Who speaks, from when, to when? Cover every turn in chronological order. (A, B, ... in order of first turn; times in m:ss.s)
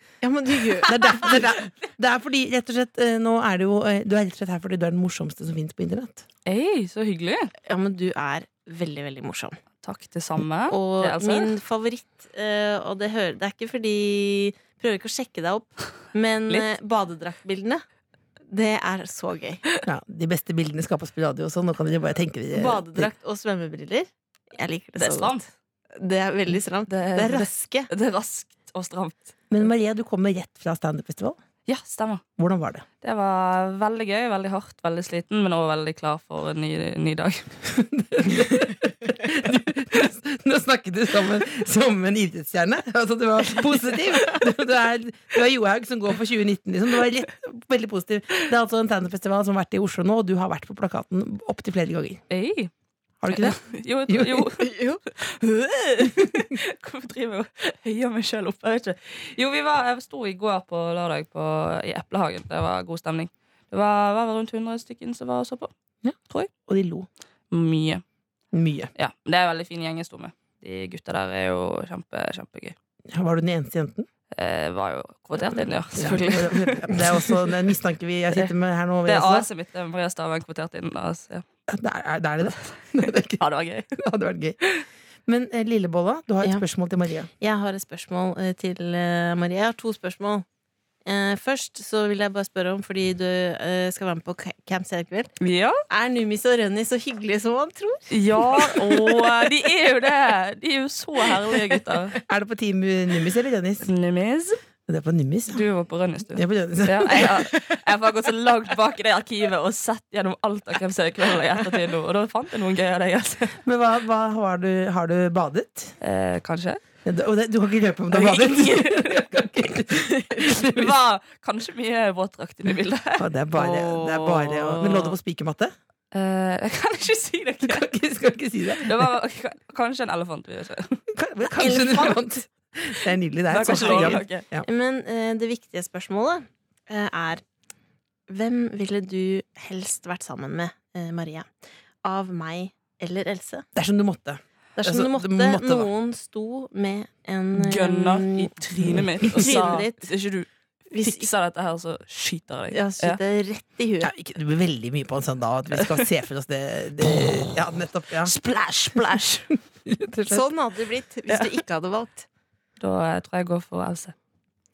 0:00.2-0:01.6 A
0:00.8-0:06.2 B
0:06.4-0:07.5 C
0:07.7-0:09.6 A
0:09.8-0:11.5 C
0:10.7-0:17.8 A
0:18.5-0:19.6 A
0:19.8-0:23.1 B
0:22.5-0:25.4 A
0:25.0-0:25.5 C
0:26.0-0:27.9 A
0:26.9-0:29.3 C
0:29.5-0:31.4 B
0:31.7-0:32.2 C
0:32.4-0:32.8 B
0:33.0-0:37.5 C
0:37.7-0:52.2 B
0:52.3-0:52.7 C
0:53.2-0:54.5 B
0:53.3-1:05.7 C
0:54.6-0:55.0 A
1:06.0-1:07.1 B
1:07.5-1:08.0 C
1:08.5-1:08.9 B
1:09.0-1:12.8 C
1:13.1-1:14.1 B
1:14.3-1:17.4 C
1:15.9-1:19.5 B
1:18.3-1:21.4 C
1:21.7-1:23.4 B
1:23.4-1:23.9 C
1:24.0-1:24.6 B
1:25.3-1:27.3 B
1:27.4-1:30.4 A
1:31.0-1:35.3 A
1:35.4-1:35.8 C
1:35.9-1:39.2 A
1:38.1-1:42.2 C
1:42.2-1:43.9 B
1:43.8-1:44.6 C
1:44.9-1:45.6 B
1:45.5-1:53.6 C
1:46.3-1:47.5 B
1:53.6-1:56.0 B
1:56.0-1:56.8 C
1:57.0-2:00.9 B
1:58.1-1:59.4 C
2:00.3-2:05.1 C
2:03.2-2:05.7 B
2:03.6-2:04.9 A
2:06.1-2:07.9 C
2:07.6-2:09.1 B
2:08.8-2:11.0 C
2:11.1-2:14.6 B
2:11.6-2:12.2 A
2:13.5-2:14.4 C
2:13.6-2:17.4 A
2:18.3-2:21.5 A
2:22.0-2:23.6 A
2:23.7-2:25.9 B
2:24.8-2:28.5 A
2:27.5-2:33.2 C
2:29.3-2:30.1 A
2:30.9-2:31.3 A
2:32.7-2:34.1 A
2:34.0-2:38.3 B
2:35.7-2:36.1 C
2:38.2-2:39.5 C
2:39.9-2:40.4 B
2:40.3-2:42.3 A
2:41.3-2:41.6 C
2:42.8-2:44.1 C